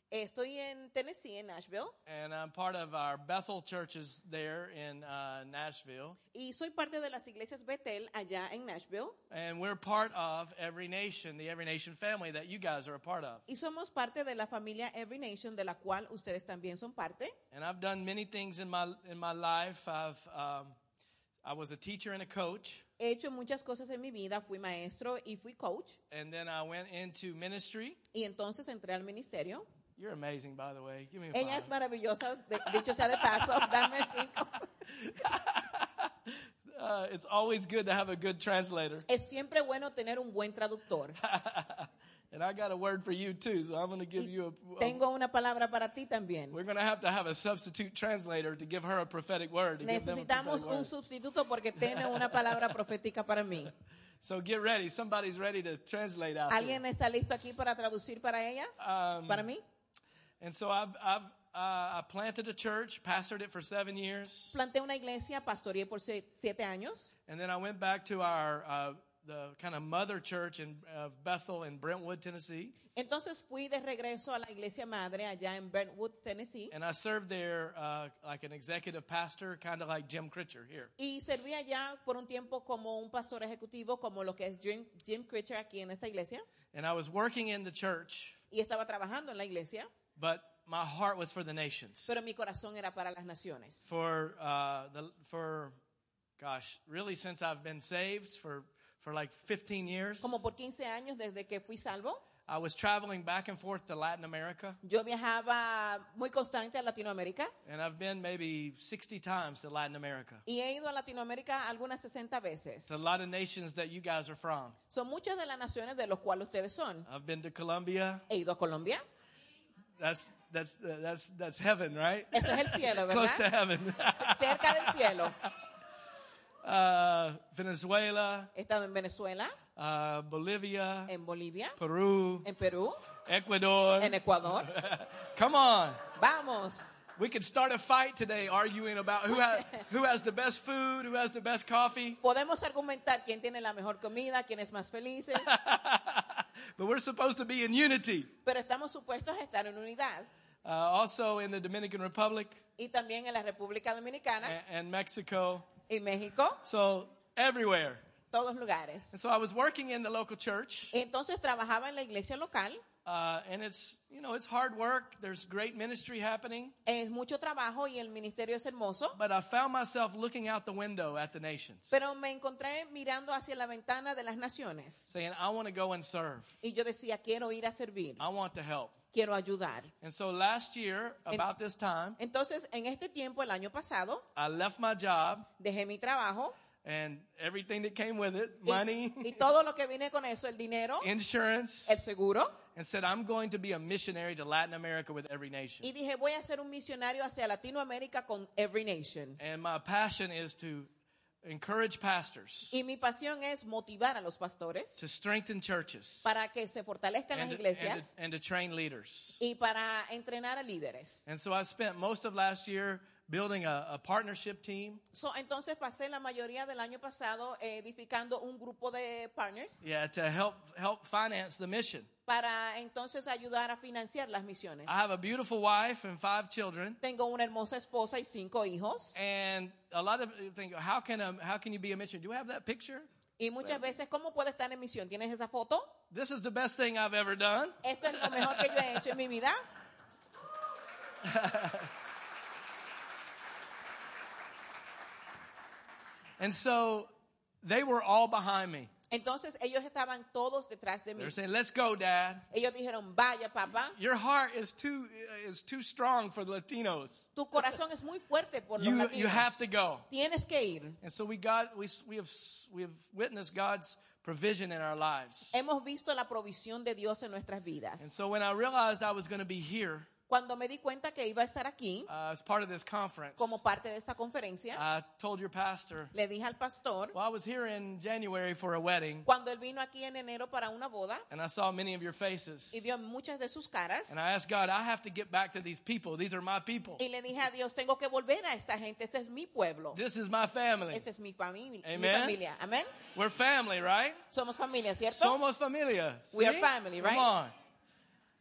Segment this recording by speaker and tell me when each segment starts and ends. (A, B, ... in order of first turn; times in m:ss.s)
0:00.1-0:02.0 A
0:02.0-0:06.2 B
0:06.3-0:09.2 A
0:09.3-0:13.4 B
0:13.5-0:17.3 A
0:17.5-0:20.8 B
0:21.4-0:22.8 B
0:23.0-0:26.0 A
0:26.1-0:28.0 B
0:28.1-0:29.6 A
0:30.0-0:31.7 B
0:31.3-0:34.6 A
0:32.6-0:39.0 B
0:39.1-0:41.2 A
0:41.2-0:45.0 B
0:44.2-0:46.6 A
0:46.5-0:50.9 B
0:49.8-0:53.7 A
0:51.7-0:52.8 B
0:54.2-0:56.8 B
0:56.5-0:58.7 A
0:58.8-0:59.5 B
0:59.3-0:59.6 A
1:00.4-1:04.6 B
1:04.5-1:07.1 A
1:07.3-1:12.7 B
1:12.9-1:16.7 A
1:16.7-1:20.9 B
1:21.0-1:26.4 A
1:26.7-1:28.4 B
1:28.5-1:29.9 A
1:30.2-1:32.1 B
1:32.1-1:33.9 A
1:33.9-1:35.8 B
1:36.4-1:40.4 B
1:40.2-1:42.2 A
1:42.5-1:44.8 B
1:44.8-1:47.5 A
1:47.6-1:50.4 B
1:50.4-1:53.0 A
1:52.9-1:54.8 B
1:54.9-1:57.1 A
1:57.0-1:58.2 B
1:58.3-1:59.0 A
2:00.0-2:05.5 B
2:02.3-2:03.4 A
2:04.1-2:05.4 A
2:06.6-2:08.5 B
2:08.5-2:09.6 A
2:09.8-2:11.1 B
2:11.1-2:11.8 A
2:11.8-2:12.5 B
2:12.4-2:13.0 A
2:13.2-2:16.0 B
2:14.0-2:14.7 A
2:16.1-2:17.0 A
2:17.2-2:22.2 B
2:19.3-2:19.8 A
2:22.2-2:25.6 A
2:25.3-2:28.3 B
2:28.4-2:30.3 A
2:30.6-2:32.6 B
2:32.8-2:34.6 A
2:34.4-2:35.7 B
2:35.9-2:36.6 A
2:36.6-2:38.0 B
2:38.3-2:39.1 A
2:39.1-2:40.9 B
2:40.9-2:42.8 A
2:43.0-2:46.7 B
2:46.8-2:49.2 A
2:49.1-2:52.1 B
2:51.9-2:55.1 A
2:55.1-2:56.6 B
2:56.6-2:58.2 A
2:58.2-2:58.9 B
2:59.1-2:59.9 A
3:00.0-3:02.2 B
3:02.2-3:04.2 A
3:04.4-3:05.5 B
3:05.6-3:06.6 A
3:06.8-3:09.5 B
3:08.6-3:11.1 A
3:11.0-3:11.9 B
3:11.9-3:12.6 A
3:12.7-3:15.9 B
3:15.8-3:19.4 A
3:19.4-3:20.9 B
3:21.4-3:22.8 B
3:22.7-3:25.0 A
3:25.0-3:26.3 B
3:26.2-3:28.1 A
3:27.3-3:29.4 B
3:29.4-3:31.2 A
3:31.2-3:35.0 B
3:35.1-3:39.8 A
3:39.8-3:42.1 B
3:42.2-3:45.0 A
3:44.9-3:47.0 B
3:47.0-3:49.2 A
3:49.1-3:53.1 B
3:53.4-3:55.9 A
3:56.1-3:59.0 B
3:57.8-3:59.6 A
4:01.2-4:01.9 B
4:06.4-4:07.1 B
4:07.6-4:08.9 B
4:09.1-4:11.4 A
4:11.2-4:12.5 B
4:12.5-4:14.0 A
4:14.0-4:17.3 B
4:17.4-4:21.0 A
4:18.8-4:20.1 B
4:21.0-4:25.6 B
4:25.5-4:28.1 A
4:28.0-4:30.1 B
4:30.3-4:32.1 A
4:32.1-4:33.6 B
4:33.4-4:34.8 A
4:34.7-4:36.1 B
4:36.1-4:37.1 A
4:37.1-4:39.3 B
4:39.2-4:41.2 A
4:41.3-4:42.8 B
4:42.7-4:44.2 A
4:44.1-4:47.0 B
4:47.0-4:50.0 A
4:49.9-4:51.0 B
4:50.9-4:52.9 A
4:51.8-4:52.4 B
4:53.1-4:54.2 B
4:54.3-4:55.4 A
4:55.1-4:57.5 B
4:56.3-4:57.3 A